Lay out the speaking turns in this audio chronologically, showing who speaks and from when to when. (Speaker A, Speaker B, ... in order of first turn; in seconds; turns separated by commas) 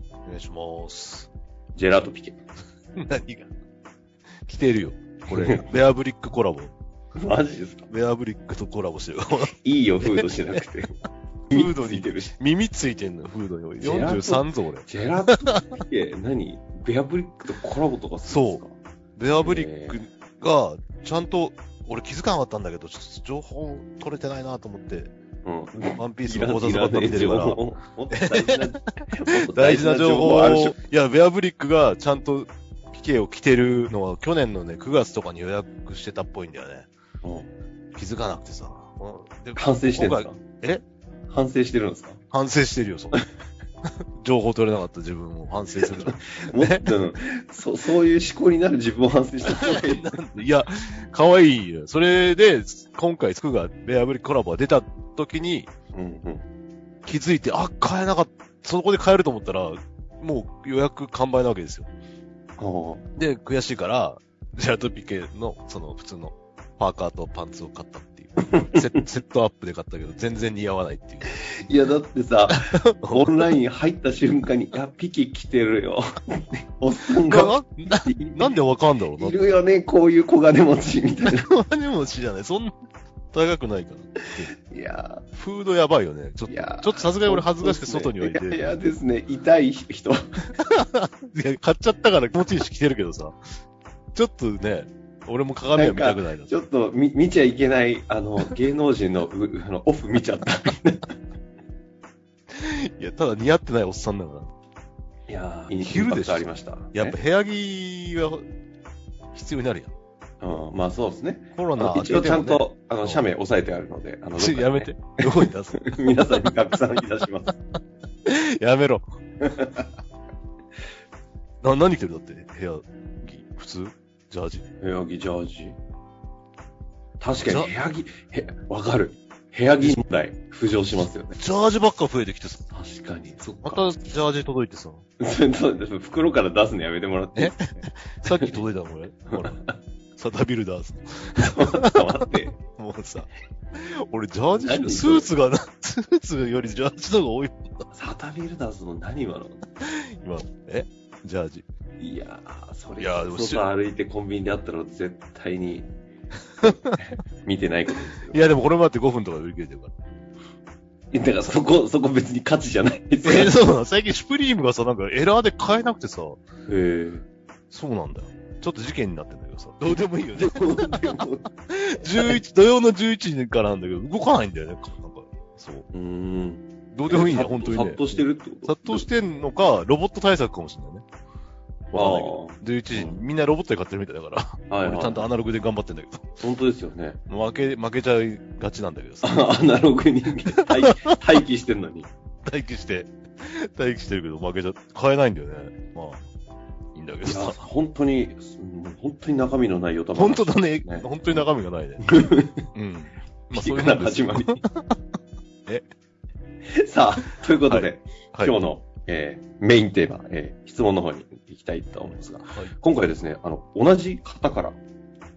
Speaker A: 0.2-1.3, Speaker B: 1.7-2.4, Speaker A: 3.0-3.5, Speaker A: 4.4-6.7, Speaker B: 5.3-5.8, Speaker B: 7.2-7.9, Speaker A: 7.9-9.5, Speaker B: 9.5-10.9, Speaker A: 10.1-10.6, Speaker B: 11.5-12.3, Speaker A: 11.5-15.6, Speaker B: 13.8-18.7, Speaker A: 18.2-18.6, Speaker A: 19.1-25.1, Speaker B: 19.4-20.0, Speaker B: 25.4-30.8, Speaker A: 26.0-27.6, Speaker A: 28.1-36.9, Speaker B: 37.2-37.5, Speaker A: 37.9-40.8, Speaker B: 39.5-40.4, Speaker B: 41.3-42.2, Speaker A: 42.3-43.2, Speaker A: 44.2-46.9, Speaker B: 45.8-50.1, Speaker A: 49.4-55.7, Speaker B: 55.9-56.5, Speaker A: 57.0-61.9, Speaker B: 62.6-63.0, Speaker A: 63.2-71.4, Speaker B: 68.6-68.8, Speaker B: 71.3-78.6, Speaker A: 72.5-73.5, Speaker A: 77.3-79.5, Speaker B: 79.2-81.5, Speaker A: 81.3-82.7, Speaker A: 83.3-84.5, Speaker B: 84.6-85.2, Speaker A: 85.3-88.6, Speaker B: 86.5-90.4, Speaker A: 90.6-93.4, Speaker A: 94.1-96.7, Speaker B: 95.7-101.1, Speaker A: 102.5-104.5, Speaker B: 105.3-107.2, Speaker A: 105.8-108.4, Speaker A: 109.3-109.9, Speaker B: 110.4-117.5, Speaker A: 111.5-113.2, Speaker A: 114.4-116.4, Speaker A: 118.2-119.0, Speaker B: 119.5-119.8, Speaker A: 121.6-124.7, Speaker B: 124.8-125.8, Speaker B: 127.2-131.3, Speaker A: 127.4-127.7, Speaker A: 131.3-132.7, Speaker B: 132.7-133.8, Speaker A: 133.6-135.0, Speaker B: 135.2-138.6, Speaker A: 137.3-139.6, Speaker B: 139.3-139.7, Speaker A: 140.2-147.9, Speaker B: 141.4-142.6, Speaker B: 144.6-145.3, Speaker B: 147.9-149.6, Speaker A: 149.8-151.6, Speaker B: 152.0-155.9, Speaker A: 153.0-153.7, Speaker A: 156.6-156.9, Speaker B: 156.6-158.4, Speaker A: 158.3-159.9, Speaker B: 161.1-163.6, Speaker A: 163.2-166.4, Speaker B: 166.7-167.2, Speaker A: 167.7-175.9, Speaker B: 169.9-171.5, Speaker B: 172.1-172.4, Speaker B: 175.9-179.1, Speaker A: 176.9-181.0, Speaker A: 181.9-186.4, Speaker B: 181.9-183.2, Speaker B: 184.7-185.3, Speaker B: 186.4-187.2, Speaker A: 187.3-189.5, Speaker B: 189.2-192.1, Speaker A: 190.6-191.2, Speaker A: 192.4-196.2, Speaker A: 196.9-197.6, Speaker B: 197.2-201.1, Speaker A: 200.2-202.0, Speaker B: 202.0-202.7, Speaker A: 202.7-204.9, Speaker B: 203.5-204.6, Speaker B: 206.7-214.8, Speaker A: 207.7-208.5, Speaker A: 212.5-212.7